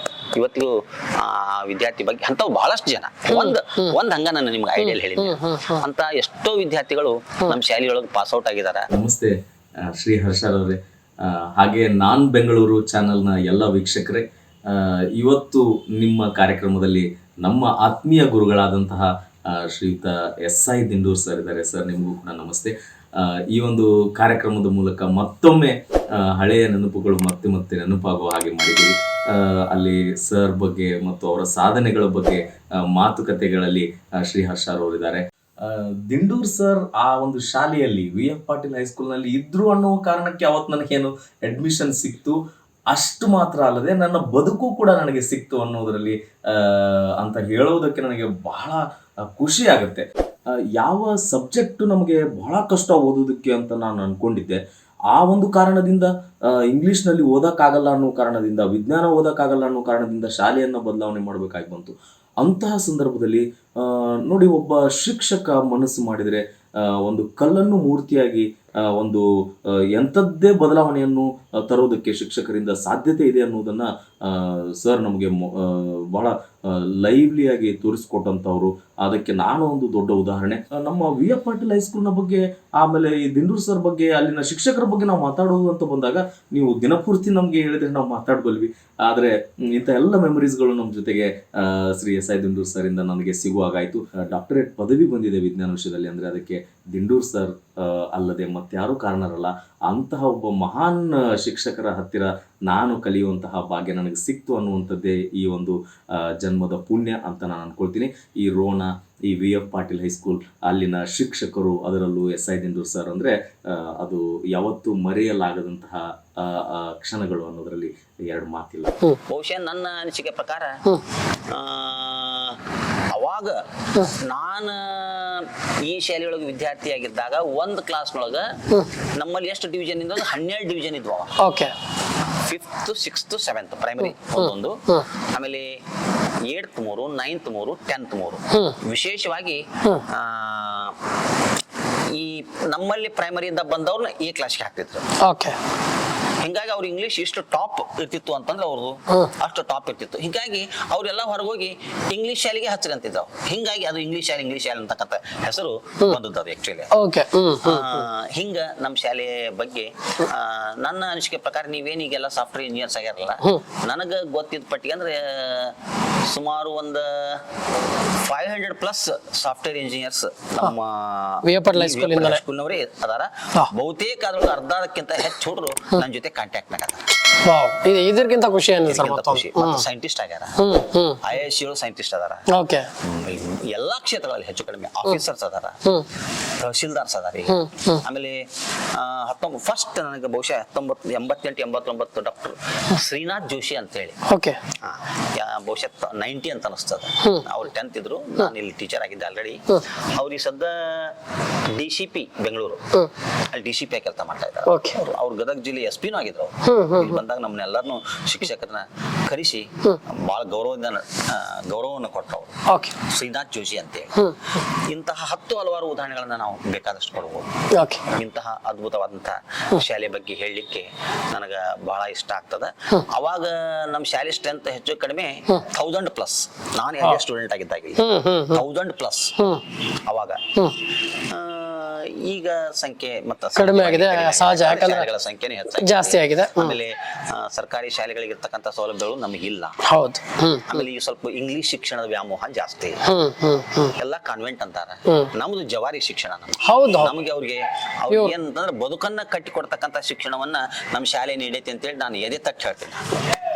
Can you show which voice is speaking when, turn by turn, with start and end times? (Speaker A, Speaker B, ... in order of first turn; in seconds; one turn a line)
Speaker A: 0.3-8.9
Speaker B: 3.3-4.0
Speaker B: 4.8-5.8
Speaker C: 8.9-9.3
Speaker C: 9.9-42.4
Speaker C: 42.9-48.8
Speaker C: 49.3-50.0
Speaker C: 50.8-54.6
Speaker C: 55.1-118.9
Speaker A: 119.3-120.8
Speaker A: 121.5-122.6
Speaker A: 123.1-131.3
Speaker B: 131.4-131.7
Speaker A: 132.4-135.8
Speaker B: 134.2-135.0
Speaker A: 136.4-140.9
Speaker A: 142.1-145.1
Speaker B: 145.2-145.6
Speaker A: 146.4-156.9
Speaker B: 156.9-158.0
Speaker A: 157.6-167.4
Speaker A: 168.2-177.1
Speaker B: 171.4-172.4
Speaker B: 177.4-179.8
Speaker A: 178.9-180.6
Speaker B: 180.6-181.3
Speaker A: 181.2-182.4
Speaker B: 182.5-182.9
Speaker A: 183.0-185.8
Speaker A: 186.6-194.2
Speaker B: 187.5-188.0
Speaker B: 194.3-194.6
Speaker A: 194.7-201.2
Speaker A: 201.7-202.9
Speaker A: 203.5-217.5
Speaker B: 204.7-205.1
Speaker B: 206.7-207.2
Speaker B: 212.7-212.9
Speaker B: 217.8-218.1
Speaker A: 218.1-229.4
Speaker B: 228.0-228.6
Speaker B: 229.4-229.6
Speaker A: 229.9-239.8
Speaker B: 233.6-235.1
Speaker B: 235.8-236.8
Speaker B: 239.8-240.8
Speaker A: 240.7-243.0
Speaker B: 243.1-243.9
Speaker A: 243.9-253.1
Speaker B: 246.6-247.1